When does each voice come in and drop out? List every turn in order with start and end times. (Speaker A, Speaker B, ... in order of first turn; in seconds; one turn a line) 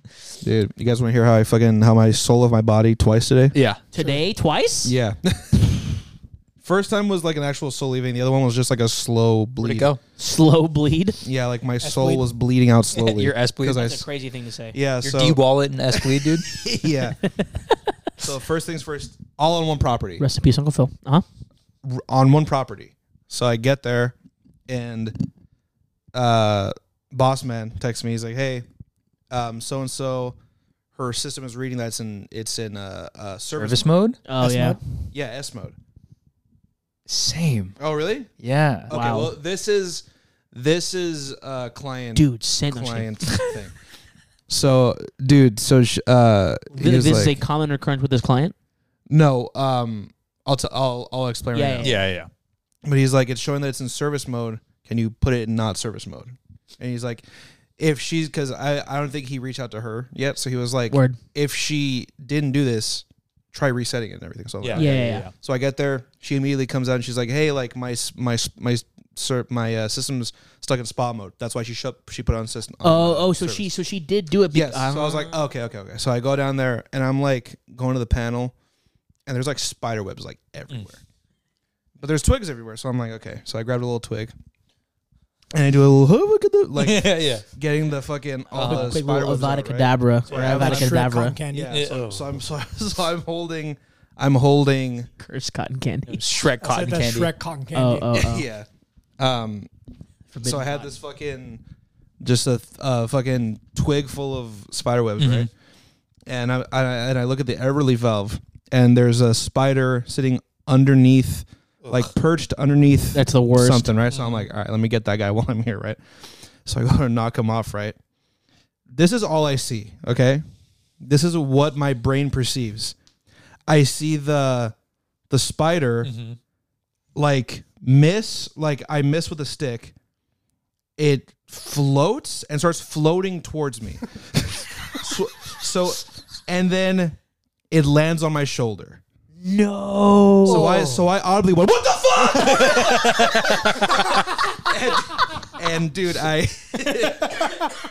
Speaker A: 0.4-3.5
Speaker B: 3.5-3.8
Speaker C: 3.9-4.9
Speaker D: 4.0-4.2
Speaker A: 4.8-5.9
Speaker A: 6.6-9.9
Speaker B: 9.6-10.0
Speaker C: 10.2-11.2
Speaker A: 11.2-14.0
Speaker D: 11.8-12.2
Speaker B: 12.9-14.0
Speaker C: 13.7-14.8
Speaker A: 14.7-15.4
Speaker B: 15.0-16.5
Speaker A: 16.5-17.2
Speaker A: 18.2-20.2
Speaker C: 20.2-21.2
Speaker A: 21.8-24.1
Speaker A: 24.7-25.1
Speaker A: 26.1-28.6
Speaker A: 29.3-30.4
Speaker A: 30.9-33.9
Speaker B: 33.6-34.2
Speaker C: 34.2-34.8
Speaker D: 34.4-34.8
Speaker A: 35.1-35.7
Speaker B: 37.1-37.8
Speaker A: 37.8-38.3
Speaker B: 38.4-38.9
Speaker A: 38.9-43.7
Speaker C: 38.9-39.3
Speaker C: 42.1-43.3
Speaker A: 44.5-47.4
Speaker C: 46.7-48.5
Speaker A: 49.1-52.0
Speaker C: 51.5-52.0
Speaker B: 51.8-52.3
Speaker A: 52.8-57.2
Speaker A: 57.8-73.8
Speaker C: 60.9-61.2
Speaker B: 64.6-65.3
Speaker C: 64.7-65.3
Speaker C: 72.8-75.4
Speaker A: 74.5-78.5
Speaker A: 79.2-81.0
Speaker A: 82.0-84.3
Speaker A: 85.5-90.9
Speaker B: 86.8-87.4
Speaker B: 88.5-88.9
Speaker C: 88.6-91.4
Speaker B: 90.3-90.7
Speaker D: 90.3-91.8
Speaker A: 91.5-95.1
Speaker B: 91.7-92.3
Speaker C: 95.2-96.2
Speaker B: 96.1-97.3
Speaker D: 96.6-98.1
Speaker C: 97.7-98.5
Speaker A: 98.1-98.7
Speaker A: 99.2-99.7
Speaker C: 100.3-100.9
Speaker A: 100.4-101.6
Speaker A: 102.2-105.5
Speaker B: 105.2-105.5
Speaker A: 106.3-116.0
Speaker C: 113.1-113.9
Speaker B: 114.1-114.5
Speaker A: 116.6-118.0
Speaker A: 118.9-120.4
Speaker A: 121.0-123.0
Speaker A: 123.7-124.7
Speaker A: 125.3-126.1
Speaker B: 126.0-126.4
Speaker A: 127.1-129.9
Speaker A: 131.0-137.2
Speaker A: 137.7-139.0
Speaker C: 139.4-140.6
Speaker A: 140.4-147.7
Speaker B: 140.4-141.0
Speaker B: 142.2-144.2